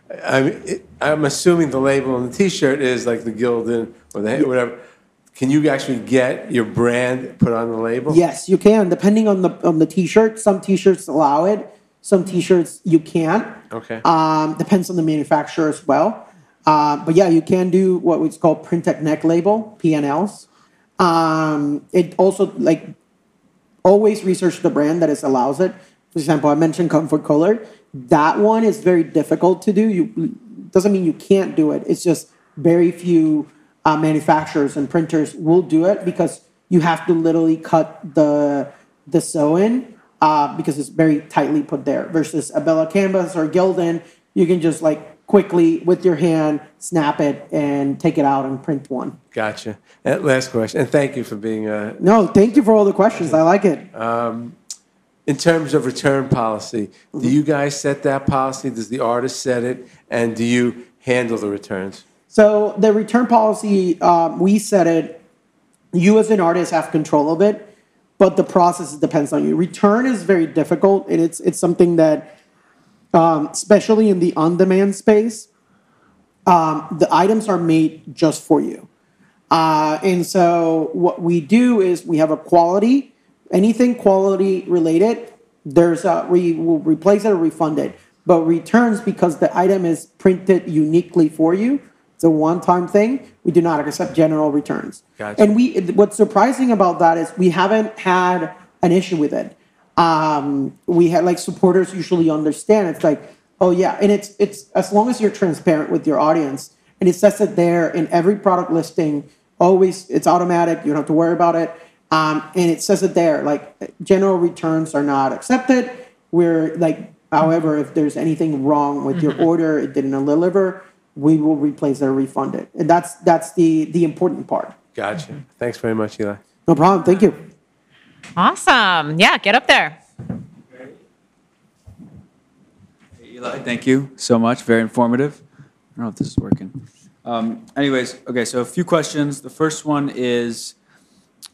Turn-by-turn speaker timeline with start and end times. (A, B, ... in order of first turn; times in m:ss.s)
0:00.1-0:04.8 A
0:05.3-0:08.2 A
0:08.1-0:20.4 B
0:13.7-0:14.0 A
0:21.0-0:22.9 B
0:23.8-0:49.2 B
0:49.3-0:52.3 A
0:52.0-0:53.9 B
0:53.9-0:54.6 A
0:55.2-1:02.0 A
1:02.3-1:05.2 B
1:05.9-1:12.3 B
1:13.1-1:15.5 B
1:16.4-1:18.9 B
1:19.5-2:04.8 B
1:35.2-1:35.5 A
1:59.1-1:59.4 C
2:04.9-2:06.4 A
2:06.7-2:07.4 B
2:08.4-2:10.0 C
2:13.2-2:15.4 D
2:15.9-2:20.8 D